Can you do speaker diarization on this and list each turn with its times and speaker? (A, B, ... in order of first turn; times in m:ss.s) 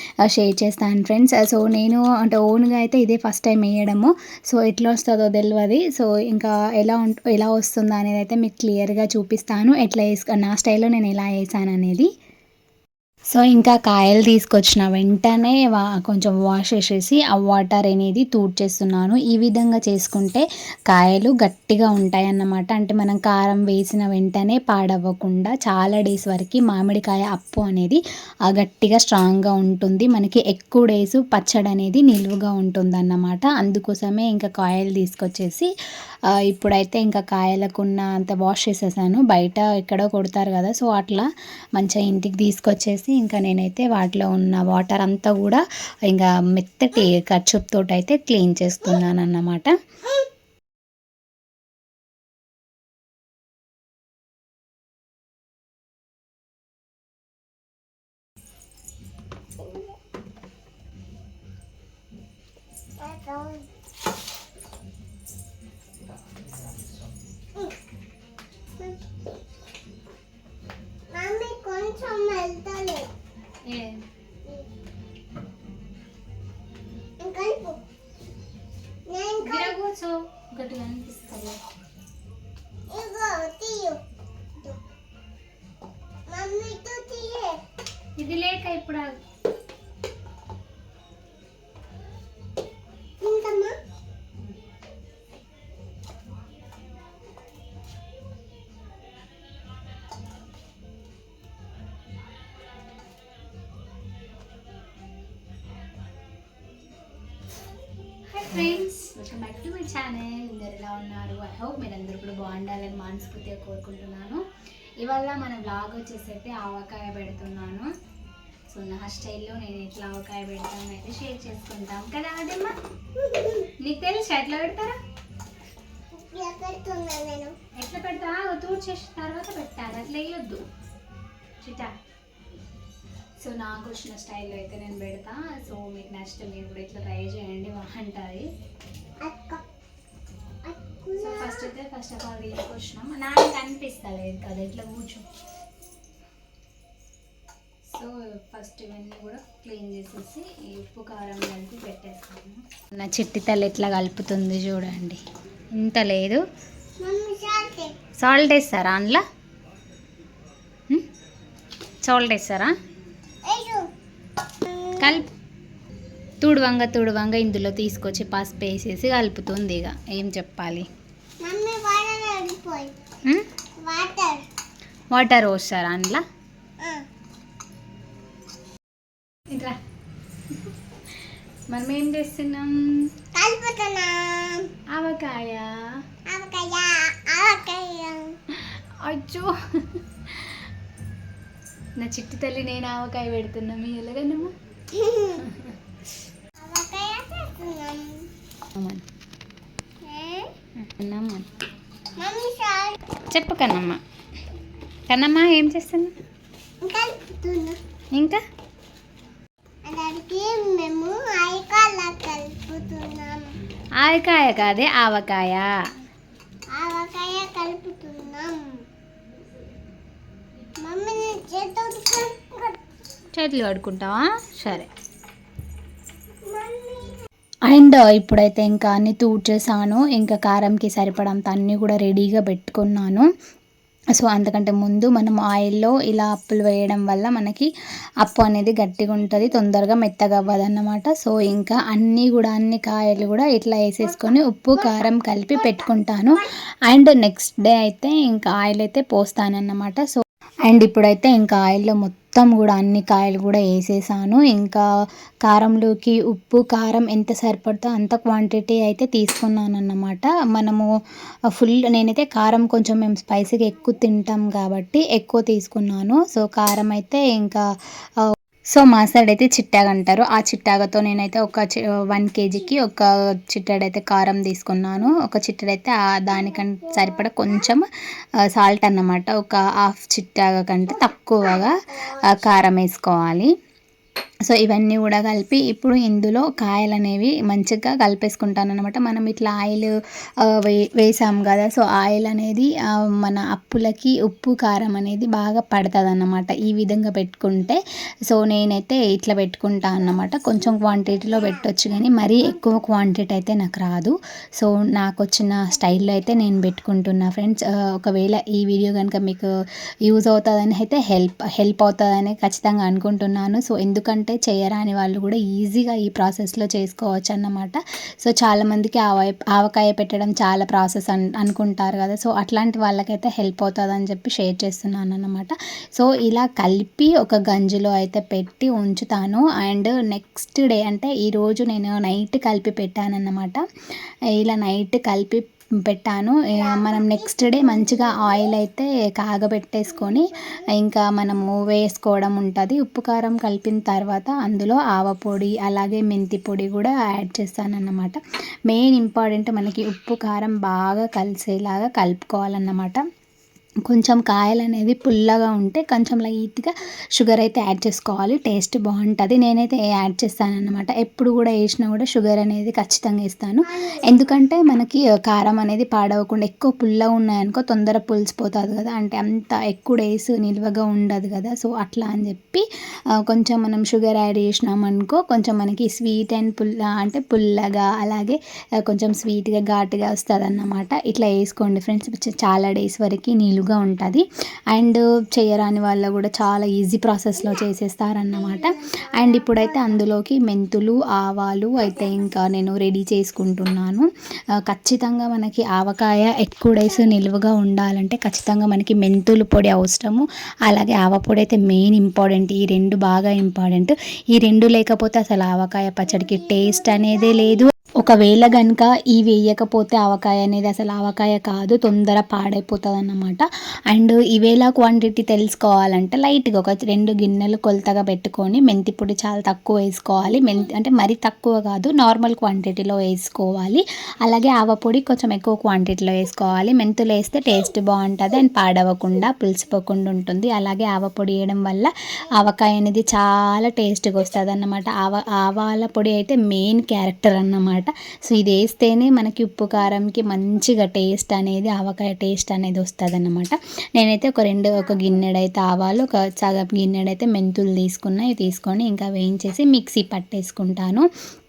0:00.3-0:12.1 A
0:13.3-0:35.7 A
0:36.5-0:49.8 A
1:03.0-1:03.7 B
1:11.1-1:13.1 B
1:13.7-1:14.0 A
1:17.2-1:17.8 B
1:19.1-1:19.8 B
1:19.4-1:21.6 A
1:22.9-1:24.0 B
1:26.3-1:27.6 B
1:28.2-1:29.1 A
1:33.2-1:33.8 B
1:48.3-1:54.4 A
1:55.0-1:57.9 A
1:58.7-2:02.7 A
2:03.2-2:03.7 B
2:03.8-2:05.0 A
2:06.1-2:07.5 B
2:07.8-2:10.6 A
2:11.6-2:11.9 A
2:13.4-2:18.5 A
2:19.2-2:19.6 B
2:20.6-2:21.7 B
2:21.1-2:25.2 A
2:27.9-2:35.2 A
2:35.8-2:36.4 A
2:37.0-2:38.0 B
2:38.2-2:39.2 A
2:42.0-2:42.7 A
2:43.5-2:43.9 B
2:44.6-2:45.2 B
2:45.0-2:45.3 A
2:46.4-2:50.9 A
2:51.4-2:53.0 B
2:53.8-2:54.4 B
2:55.1-2:56.2 A
2:59.5-2:59.8 A
3:01.7-3:02.8 A
3:03.4-3:04.7 B
3:05.0-3:05.8 A
3:06.3-3:08.4 B
3:08.5-3:10.6 A
3:12.0-3:14.5 A
3:14.9-3:15.4 B
3:15.4-3:15.8 A
3:16.6-3:18.3 B
3:18.8-3:19.0 A
3:20.0-3:20.5 B
3:20.8-3:21.5 A
3:22.2-3:23.0 B
3:23.3-3:24.0 A
3:25.1-3:26.1 A
3:26.8-3:27.8 B
3:28.1-3:28.4 A
3:29.9-3:33.5 B
3:34.0-3:35.7 A
3:36.8-3:38.8 B
3:40.8-3:42.8 B
3:43.3-3:44.9 A
3:46.5-3:47.2 B
3:47.7-3:53.3 A
3:54.2-3:57.7 A
3:58.2-4:14.8 A
4:15.4-4:20.9 A
4:21.6-4:27.6 A
4:28.8-4:37.9 A
4:38.5-4:43.5 A
4:44.5-4:49.9 A
4:50.5-5:09.5 A
5:10.1-5:33.6 A
5:34.4-5:48.2 A
5:36.6-5:38.4 B
5:48.7-5:53.0 A
5:53.9-6:12.6 A
6:13.2-6:34.1 A
6:28.6-6:29.6 B
6:34.6-7:31.1 A